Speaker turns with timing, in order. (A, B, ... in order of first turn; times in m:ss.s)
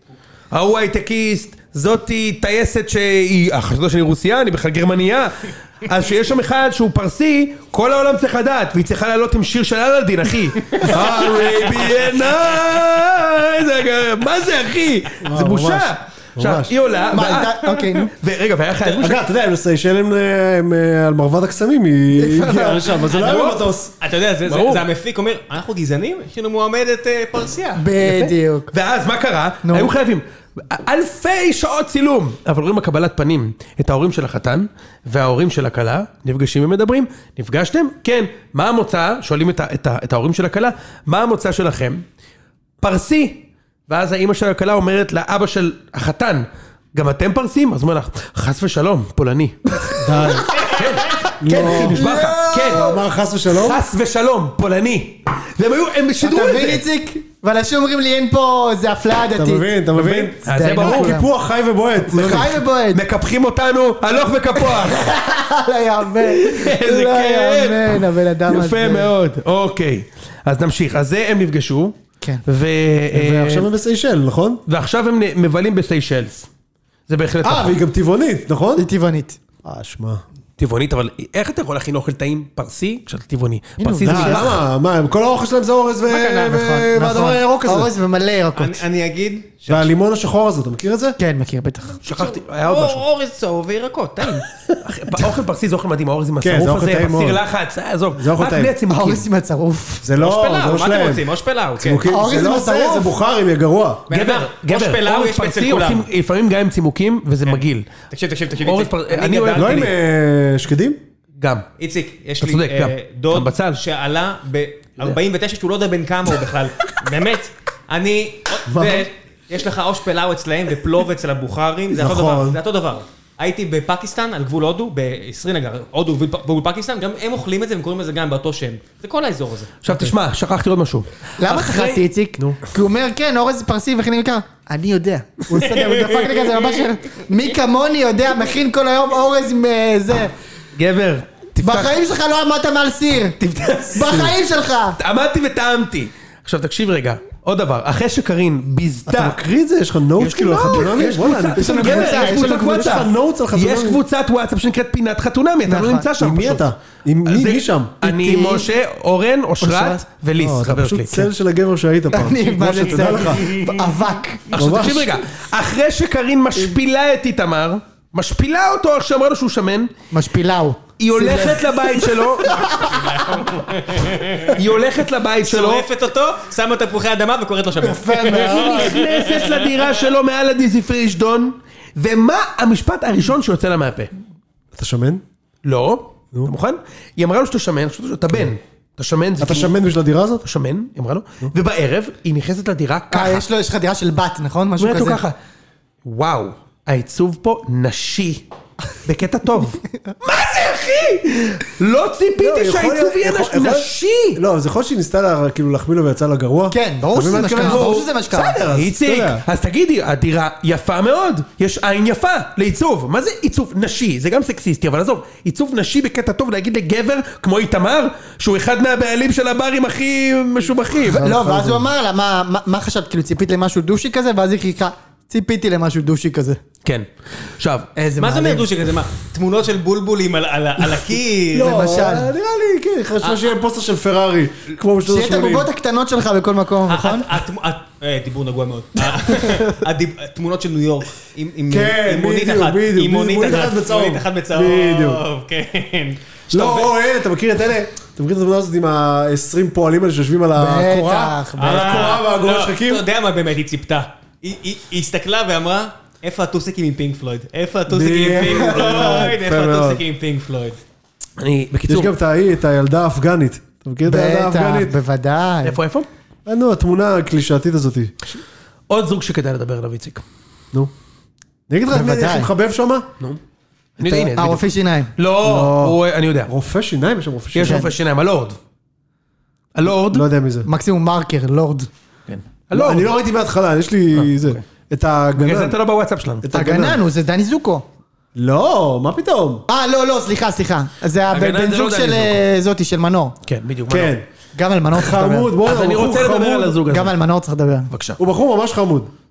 0:00.5-0:19.2 A
0:10.8-0:11.8 B
0:15.2-0:16.7 B
0:17.1-0:18.1 C
0:19.0-0:23.9 B
0:22.2-0:22.8 C
0:23.0-0:27.9 D
0:23.1-0:23.6 A
0:24.5-0:24.8 A
0:27.8-0:28.7 C
0:28.0-0:42.0 A
0:29.6-0:29.9 C
0:42.8-0:52.9 A
0:50.0-0:50.6 B
0:50.3-0:53.0 C
0:51.4-0:53.8 B
0:53.5-0:56.8 A
0:56.2-1:01.3 C
0:59.4-1:02.6 B
1:00.0-1:01.2 A
1:02.0-1:03.0 C
1:02.2-1:05.2 A
1:04.6-1:09.1 C
1:06.2-1:13.7 A
1:13.1-1:14.6 B
1:14.7-1:16.5 A
1:17.1-1:17.8 A
1:17.4-1:18.9 B
1:18.8-1:19.4 C
1:19.6-1:20.2 B
1:20.6-1:24.6 A
1:23.8-1:24.5 C
1:24.0-1:27.9 B
1:26.1-1:28.8 C
1:28.6-1:29.9 D
1:29.7-1:31.2 B
1:31.2-1:32.0 C
1:32.0-1:33.0 A
1:32.1-1:34.5 D
1:34.8-1:39.3 A
1:36.4-1:37.4 B
1:38.1-1:38.8 B
1:38.9-1:40.1 C
1:40.0-1:41.3 B
1:40.2-1:42.1 D
1:41.8-1:44.1 B
1:42.1-1:43.1 C
1:44.1-1:46.1 D
1:44.1-1:47.9 A
1:47.4-1:49.9 D
1:48.6-1:49.9 A
1:49.5-1:51.0 B
1:51.4-1:51.7 A
1:51.8-2:09.9 D
1:52.4-1:53.8 A
1:58.7-1:59.1 B
2:01.9-2:02.6 B
2:09.8-2:12.0 A
2:11.4-2:20.3 C
2:15.5-2:16.9 D
2:20.8-2:22.0 A
2:21.6-2:23.4 C
2:23.4-2:24.3 A
2:23.9-2:25.0 C
2:25.0-2:29.4 A
2:29.1-2:34.0 B
2:30.2-2:36.7 A
2:31.6-2:33.1 C
2:35.7-2:36.1 C
2:36.2-2:37.9 B
2:37.3-2:41.3 A
2:38.0-2:38.7 C
2:39.6-2:40.0 C
2:40.4-2:43.6 B
2:42.1-2:44.8 C
2:44.5-2:49.9 A
2:44.6-2:45.2 B
2:50.1-2:53.6 C
2:51.0-2:52.6 A
2:52.9-2:54.6 D
2:54.5-2:55.8 A
2:55.4-2:59.9 D
2:57.9-2:58.8 B
2:58.3-3:04.1 A
3:04.7-3:05.2 B
3:05.6-3:09.7 A
3:09.4-3:10.5 B
3:10.4-3:13.4 A
3:13.1-3:15.2 C
3:14.8-3:15.4 A
3:16.0-3:18.4 A
3:19.0-3:24.4 A
3:22.4-3:29.4 B
3:26.7-3:28.6 C
3:27.6-3:28.1 A
3:28.7-3:41.3 A
3:41.0-3:41.9 B
3:41.2-3:46.6 C
3:46.8-3:47.9 A
3:48.0-3:48.7 C
3:48.2-3:51.8 D
3:51.5-3:55.7 B
3:51.6-3:52.3 C
3:53.2-3:53.5 D
3:55.1-3:57.3 C
3:56.9-4:06.9 D
4:01.7-4:05.2 B
4:06.5-4:13.0 B
4:10.6-4:12.2 C
4:11.6-4:20.8 D
4:17.9-4:20.0 B
4:21.4-4:22.1 A
4:21.9-4:24.9 B
4:24.1-4:25.8 C
4:25.6-4:26.1 A
4:26.5-4:28.2 B
4:28.9-4:30.2 A
4:31.7-4:33.1 B
4:31.9-4:32.5 C
4:34.0-4:34.6 A
4:34.0-4:35.1 C
4:35.2-4:36.5 A
4:35.4-4:37.9 B
4:37.5-4:38.6 A
4:37.6-4:37.9 C
4:39.8-4:40.2 A
4:39.9-4:40.7 B
4:40.6-4:41.9 C
4:42.3-4:43.1 A
4:42.7-4:45.8 B
4:44.1-4:44.6 A
4:45.4-4:46.4 A
4:46.4-4:47.0 B
4:46.5-4:47.9 C
4:48.4-4:49.6 B
4:49.7-4:53.4 C
4:51.3-4:52.4 A
4:53.4-4:54.1 A
4:53.9-4:54.3 B
4:54.6-4:55.6 C
4:54.9-4:56.8 B
4:55.6-4:57.2 A
4:56.9-4:57.9 C
4:57.9-4:58.2 A
4:58.2-4:59.1 B